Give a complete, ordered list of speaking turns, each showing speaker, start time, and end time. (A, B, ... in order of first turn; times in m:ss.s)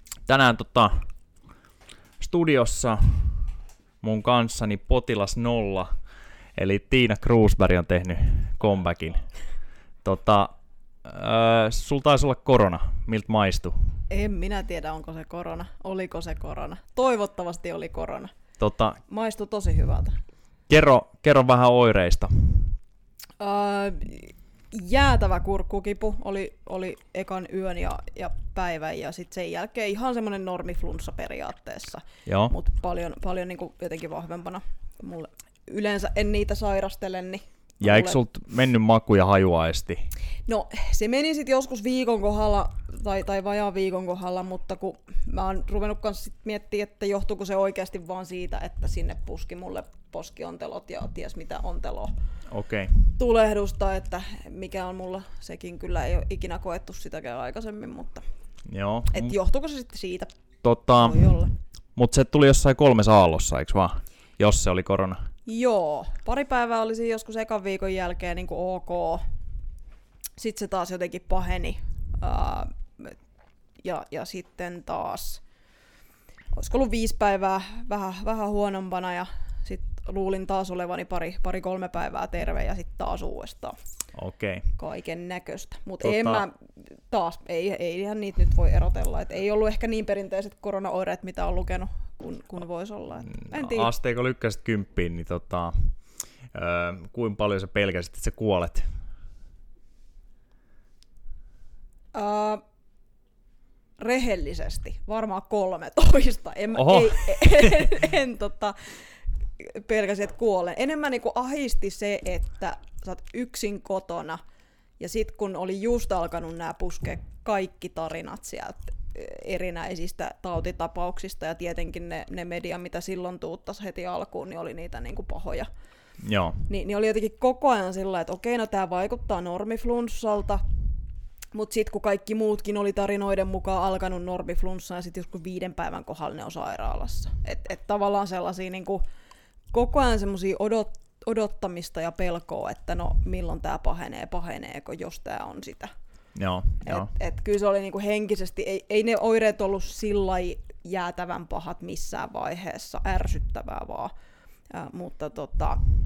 0:00.3-0:01.1 A
0:02.2-0:03.5 A
0:04.0-0:05.9 A
0:06.6-0:09.3 A
0:10.0-0:10.5 A
0:11.0-0:13.8 A
0:14.1-0:18.3 B
0:18.6-0:19.0 A
0:19.1-0:20.2 B
0:20.7-0:22.7 A
0:23.4-0:38.2 B
0:32.2-0:32.5 A
0:37.8-0:40.1 A
0:40.4-0:52.1 B
0:52.5-0:53.0 A
0:53.1-0:58.2 B
0:58.6-0:59.3 A
0:59.1-1:00.3 B
1:00.6-1:01.3 A
1:00.9-1:01.5 B
1:02.0-1:05.2 A
1:05.4-1:09.2 B
1:10.4-1:13.2 B
1:13.8-1:15.4 B
1:16.5-1:23.8 B
1:24.1-1:24.7 A
1:24.8-1:26.5 B
1:26.0-1:26.4 A
1:27.1-1:33.9 B
1:33.3-1:35.9 A
1:36.5-1:38.9 A
1:42.1-1:42.6 B
1:44.0-1:54.4 B
1:46.7-1:47.9 A
1:55.0-2:05.7 B
2:06.2-2:06.6 A
2:06.7-2:10.6 B
2:11.5-2:19.0 B
2:19.7-2:25.9 B
2:26.3-2:27.1 A
2:26.8-2:34.1 B
2:34.7-2:35.8 B